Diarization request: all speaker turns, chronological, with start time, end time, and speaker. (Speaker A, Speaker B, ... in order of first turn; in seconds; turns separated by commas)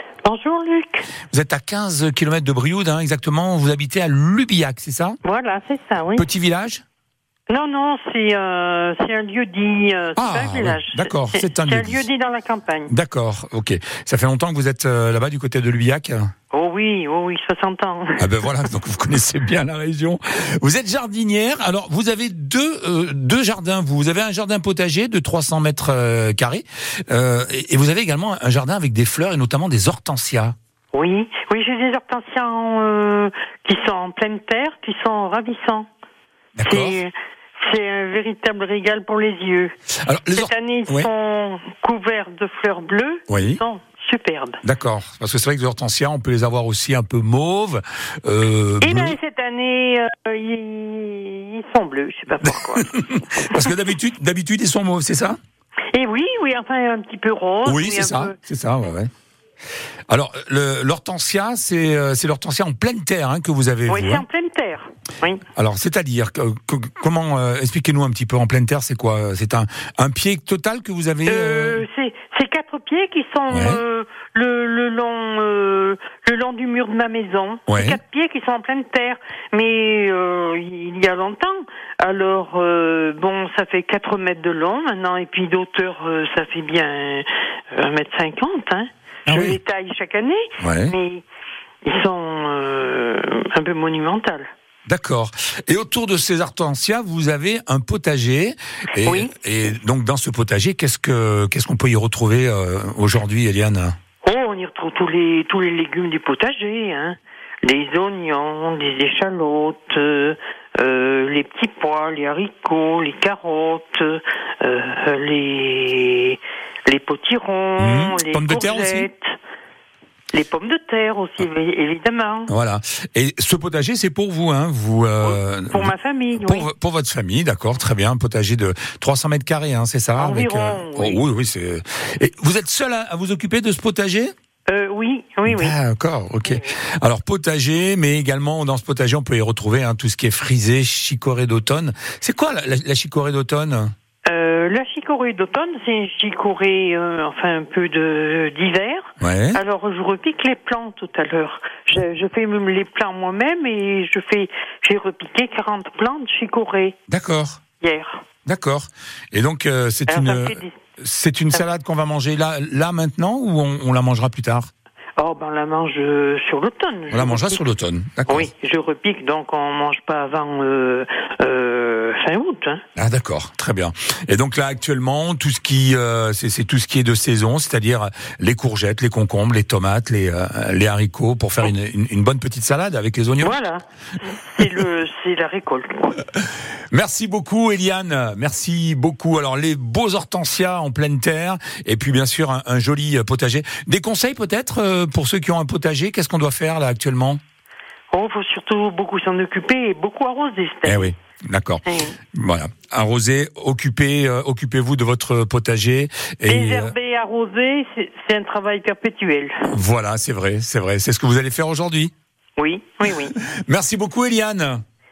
Speaker A: 0.2-1.1, Speaker B: 1.3-5.2, Speaker A: 5.2-6.3, Speaker B: 6.2-6.8, Speaker A: 7.5-12.9, Speaker B: 10.2-12.1, Speaker B: 12.9-16.3, Speaker A: 16.5-18.5, Speaker B: 18.2-30.6, Speaker A: 30.9-35.9, Speaker B: 36.6-37.0, Speaker A: 36.6-39.7, Speaker B: 40.0-41.1, Speaker A: 40.3-44.6, Speaker B: 43.3-43.6, Speaker B: 44.6-49.2, Speaker A: 48.8-53.7, Speaker B: 52.4-55.4, Speaker A: 55.9-58.4, Speaker B: 57.6-59.1, Speaker B: 60.1-64.2, Speaker A: 63.9-65.4, Speaker B: 65.5-71.8, Speaker A: 71.3-91.2, Speaker B: 73.5-73.8, Speaker B: 77.7-78.0, Speaker B: 89.3-89.6, Speaker B: 90.6-91.0, Speaker A: 91.8-94.5, Speaker B: 94.9-104.0, Speaker A: 99.0-99.3, Speaker A: 104.2-119.4, Speaker B: 117.8-119.1, Speaker A: 120.3-122.5, Speaker B: 122.5-134.3, Speaker A: 125.2-126.7, Speaker A: 130.2-131.2, Speaker A: 134.7-135.8, Speaker B: 135.5-143.9, Speaker A: 136.4-136.7, Speaker A: 144.3-157.0, Speaker B: 149.2-149.6, Speaker B: 157.1-157.6, Speaker A: 157.8-158.2, Speaker B: 158.4-164.7, Speaker A: 160.1-160.8, Speaker A: 165.2-167.6, Speaker B: 167.1-168.5, Speaker A: 168.3-172.8, Speaker B: 173.0-183.6, Speaker A: 183.4-186.2, Speaker B: 186.9-197.4, Speaker A: 198.1-201.2, Speaker B: 200.8-206.9, Speaker A: 201.9-202.2, Speaker A: 206.5-209.7, Speaker B: 209.7-212.1, Speaker A: 212.6-213.4, Speaker B: 213.5-214.8